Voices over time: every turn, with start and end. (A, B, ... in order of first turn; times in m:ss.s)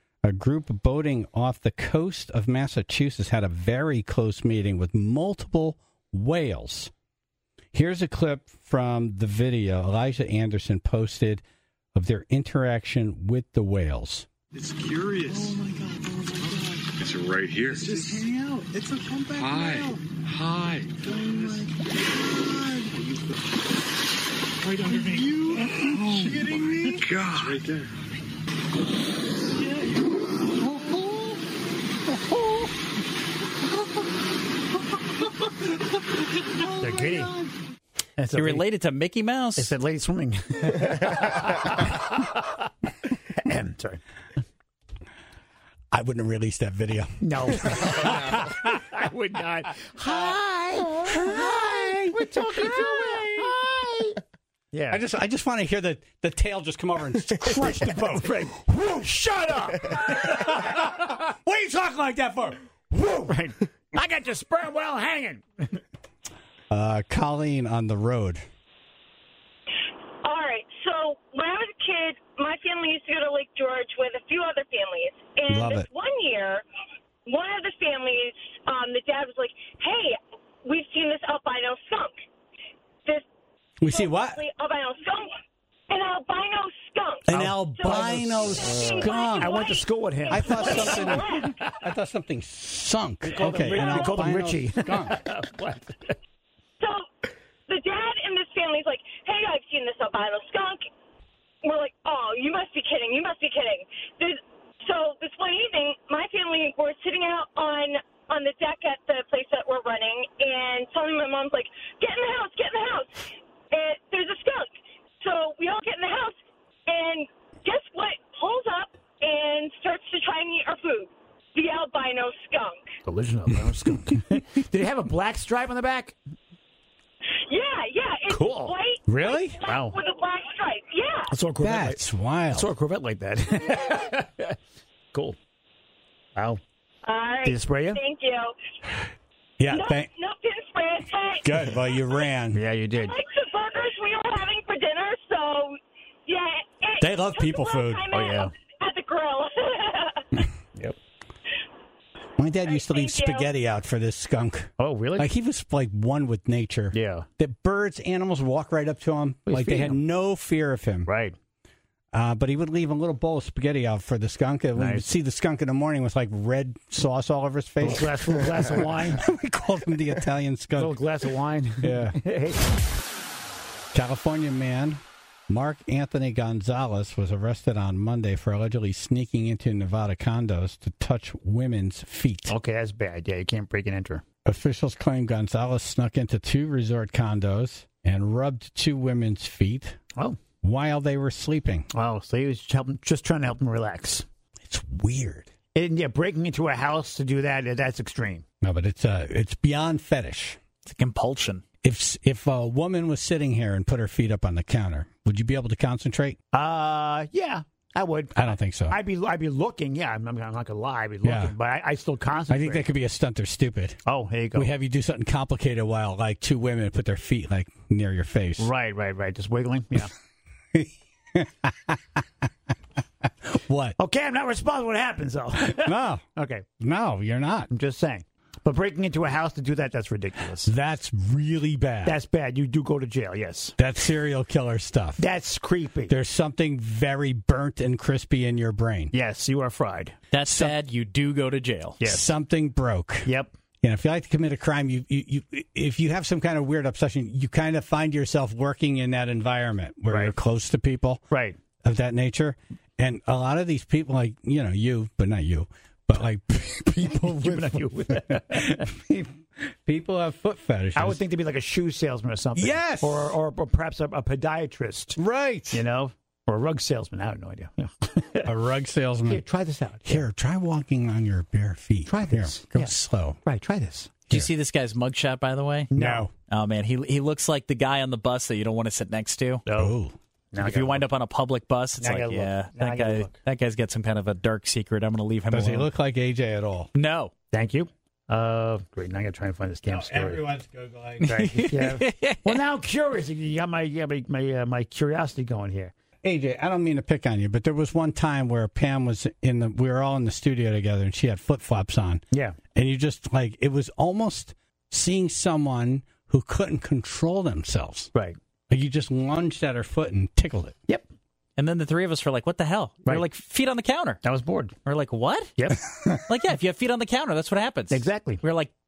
0:00.2-0:06.9 A
0:07.7-0:11.4 A
0:12.0-0:14.3 A
0:14.5-0:15.6 B
0:16.4-0:18.3 B
0:19.3-0:21.7 B
0:24.6-0:27.9 B
0:36.8-0:37.3 C
0:38.2-0:38.7 C
0:38.3-0:39.7 D
0:39.6-0:42.3 C
0:43.4-0:44.0 C
0:45.9-0:48.4 A
0:47.2-0:54.2 C
0:54.7-0:55.0 C
0:54.9-0:58.2 A
0:57.4-1:00.8 C
1:00.5-1:03.3 A
1:03.2-1:05.8 C
1:06.7-1:08.4 A
1:10.2-1:16.6 E
1:15.5-1:15.9 A
1:17.3-1:22.1 E
1:23.8-1:24.4 A
1:23.8-1:25.3 E
1:25.9-1:31.7 E
1:27.3-1:29.7 A
1:27.3-1:31.6 C
1:30.3-1:35.2 A
1:33.2-1:36.2 C
1:36.8-1:37.1 E
1:37.7-1:40.9 E
1:41.6-1:56.4 E
1:56.9-2:02.8 E
2:03.0-2:06.2 C
2:07.5-2:11.3 E
2:08.3-2:10.0 C
2:09.2-2:09.6 A
2:11.3-2:12.0 C
2:11.6-2:12.7 A
2:12.5-2:14.6 C
2:16.4-2:16.6 C
2:17.1-2:18.5 E
2:17.4-2:18.0 C
2:19.6-2:20.1 A
2:19.7-2:22.2 E
2:21.4-2:22.6 A
2:22.5-2:23.2 C
2:23.0-2:30.3 E
2:27.0-2:28.1 A
2:28.1-2:28.5 C
2:32.4-2:41.1 A
2:32.6-2:33.5 E
2:34.8-2:35.3 C
2:36.9-2:37.3 C
2:39.5-2:40.0 C
2:41.1-2:41.3 C
2:42.1-2:51.0 A
2:44.8-2:45.1 C
2:47.8-2:49.3 C
2:50.8-2:52.7 C
2:51.8-2:52.2 A
2:53.9-3:02.5 A
3:02.5-3:04.2 C
3:04.4-3:10.0 A
3:10.6-3:11.9 A
3:11.9-3:14.2 C
3:14.6-3:15.5 A
3:15.7-3:18.4 C
3:18.6-3:20.6 A
3:20.8-3:21.6 D
3:21.8-3:26.4 A
3:26.5-3:32.8 C
3:28.4-3:29.0 A
3:31.2-3:31.5 A
3:32.5-3:34.0 A
3:34.1-3:34.7 C
3:34.6-3:38.7 A
3:38.6-3:40.1 C
3:40.7-3:42.0 A
3:43.4-3:44.0 A
3:44.0-3:46.7 C
3:45.6-3:46.2 A
3:46.8-3:47.7 A
3:47.7-3:50.7 C
3:50.6-3:52.2 A
3:52.0-3:53.8 C
3:53.8-3:55.2 A
3:55.2-3:56.1 C
3:56.1-3:59.1 A
3:59.1-4:00.2 C
4:00.3-4:02.0 D
4:02.0-4:02.3 C
4:02.1-4:03.3 A
4:03.3-4:03.5 C
4:03.8-4:11.2 A
4:11.3-4:11.6 C
4:11.8-4:21.2 A
4:17.0-4:18.9 C
4:21.0-4:25.2 C
4:22.6-4:23.3 A
4:25.2-4:25.8 A
4:25.7-4:28.5 C
4:28.5-4:29.4 A
4:29.3-4:30.2 C
4:30.0-4:33.4 A
4:32.1-4:32.9 C
4:33.4-4:34.2 C
4:34.3-4:39.6 D
4:35.9-4:36.3 C
4:36.0-4:36.3 A
4:39.7-4:40.0 C
4:39.8-4:40.1 A
4:40.5-4:41.1 C
4:40.6-4:45.9 D
4:42.0-4:43.4 C
4:45.5-4:46.9 A
4:47.0-4:47.3 D
4:47.5-4:50.4 C
4:49.9-4:51.4 A
4:51.2-4:55.9 C
4:51.3-4:52.6 D
4:56.2-5:08.1 A
5:02.3-5:02.6 C
5:08.7-5:10.8 A
5:11.6-5:14.2 D
5:13.0-5:13.3 C
5:14.2-5:14.8 C
5:14.9-5:15.5 D
5:15.6-5:15.9 C
5:16.3-5:18.7 D
5:17.9-5:18.4 C